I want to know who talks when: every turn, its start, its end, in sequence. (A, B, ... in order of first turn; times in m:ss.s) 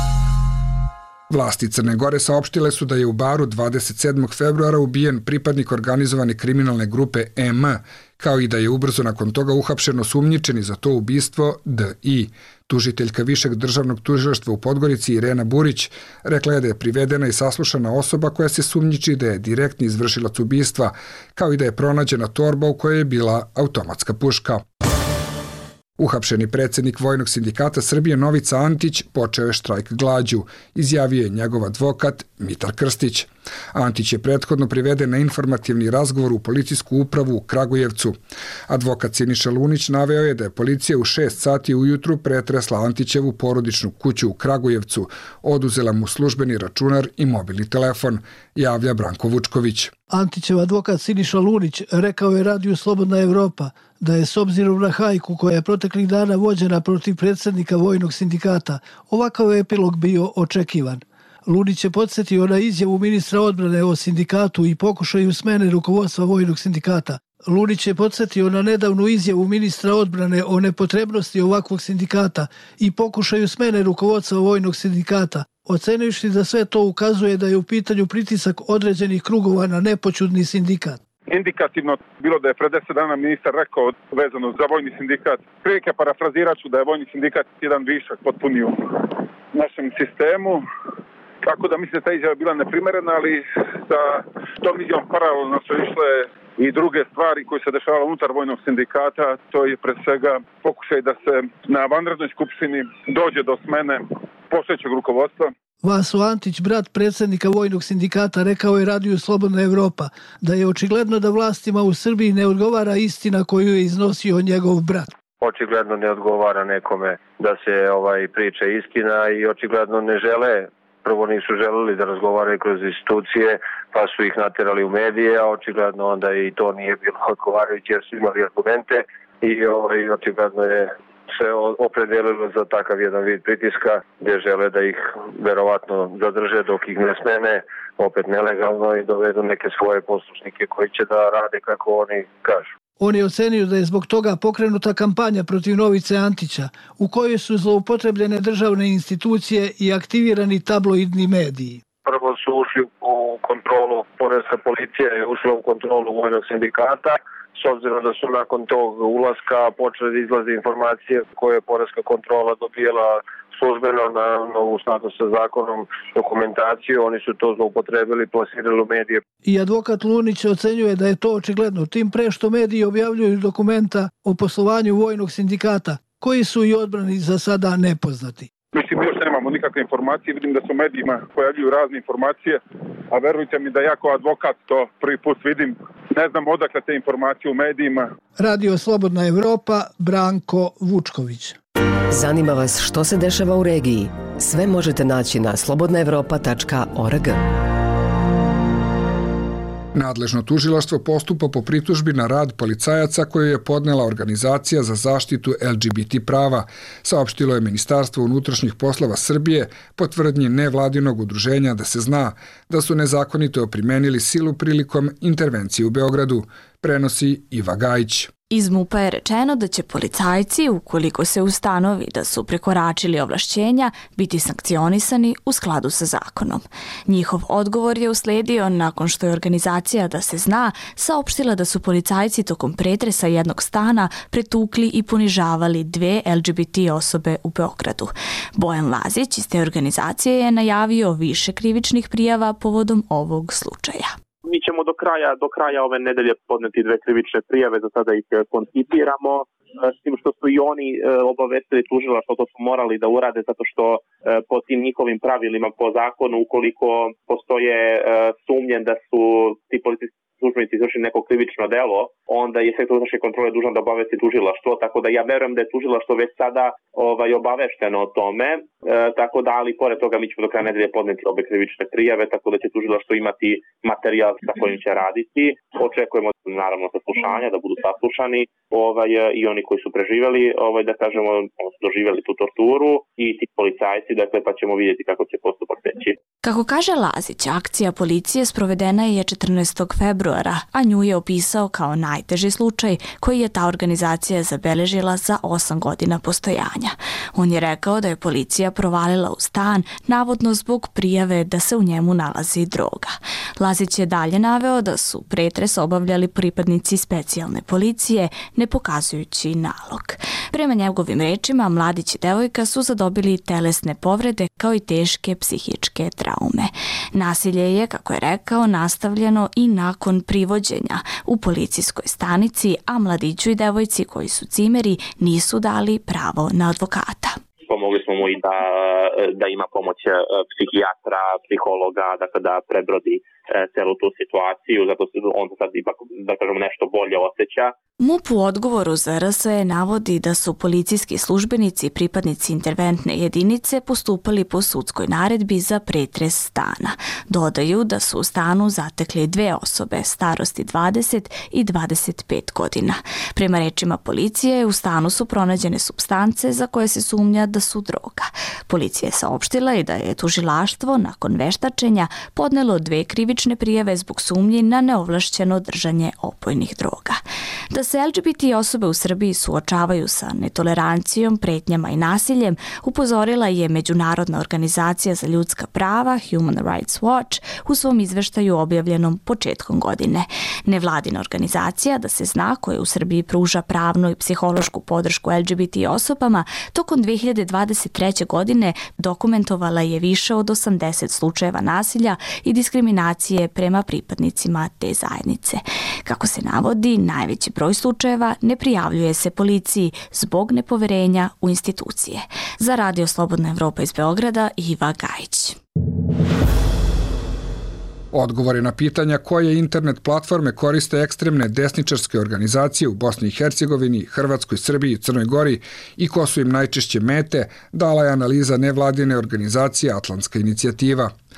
0:01.3-0:24.6 A
0:26.0-0:49.9 A
0:50.1-1:21.0 B
1:21.3-1:30.6 C
1:31.4-1:45.5 C
1:45.8-1:55.1 B
1:55.4-2:22.7 D
2:23.0-2:31.8 B
2:32.0-2:49.2 D
2:49.4-2:58.5 B
2:58.7-3:08.1 C
3:08.4-3:11.6 B
3:12.1-3:17.5 E
3:19.9-3:38.3 A
3:38.5-4:04.1 F
4:04.4-4:46.2 G
4:46.4-5:27.4 F
5:27.6-5:37.8 G
5:38.0-6:45.6 F
6:48.1-7:01.1 A